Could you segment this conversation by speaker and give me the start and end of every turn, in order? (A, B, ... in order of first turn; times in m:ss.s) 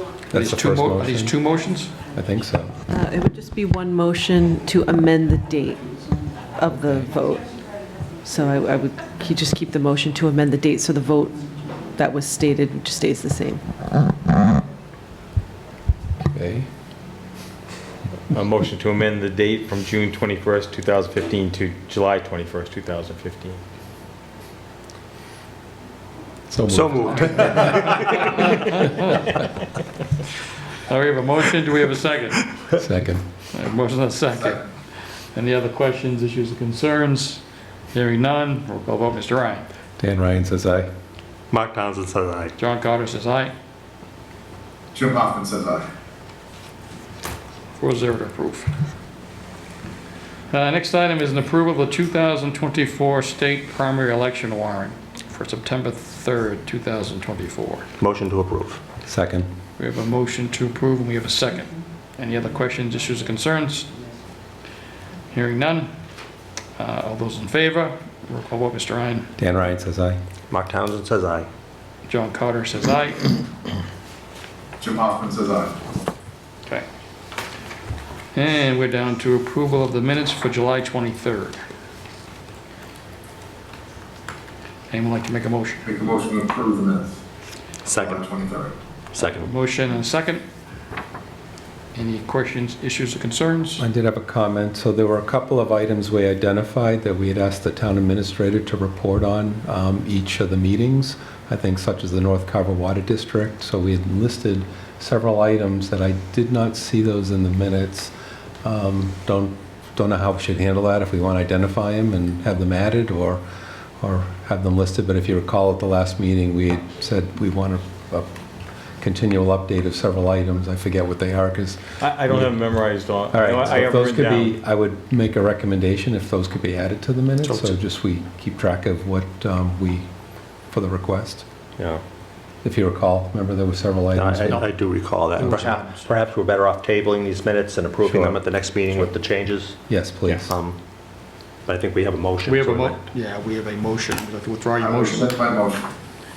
0:00.3-0:01.4 A
0:00.3-0:01.9 B
0:02.1-0:02.8 A
0:02.9-0:05.8 C
0:06.6-0:07.5 C
0:08.2-0:11.4 C
0:11.9-0:13.6 C
0:16.2-0:16.7 A
0:18.3-0:23.6 D
0:26.5-0:27.9 A
0:26.7-0:28.5 E
0:27.4-0:29.4 B
0:30.8-0:32.5 B
0:32.8-0:33.2 A
0:33.5-0:34.7 B
0:35.3-0:37.4 B
0:37.9-0:39.6 B
0:40.0-0:40.9 A
0:41.5-0:42.6 E
0:42.6-0:43.5 B
0:44.9-0:45.9 F
0:47.8-0:48.7 B
0:50.5-0:57.9 B
0:58.0-0:58.8 E
0:59.0-0:59.5 A
0:59.8-1:03.9 B
1:05.3-1:05.9 B
1:06.8-1:09.3 B
1:09.4-1:10.2 A
1:10.5-1:11.5 E
1:12.1-1:13.3 B
1:14.8-1:15.8 F
1:18.3-1:21.6 B
1:24.9-1:25.8 B
1:25.8-1:27.2 F
1:27.8-1:28.5 E
1:28.0-1:28.7 F
1:29.1-1:29.5 E
1:29.3-1:30.4 B
1:31.9-1:33.8 B
1:33.8-1:48.1 A
1:48.6-1:53.4 A
1:54.0-1:58.3 A
1:59.0-2:02.6 A
2:02.0-2:04.6 D
2:03.3-2:10.1 A
2:07.4-2:07.8 E
2:10.7-2:11.4 A
2:11.8-2:12.0 E
2:12.6-2:14.6 A
2:14.1-2:19.9 E
2:14.5-2:14.8 B
2:15.3-2:16.1 B
2:18.1-2:18.4 A
2:19.9-2:20.5 A
2:20.4-2:20.8 E
2:21.7-2:23.0 E
2:22.4-2:25.4 B
2:24.8-2:25.9 F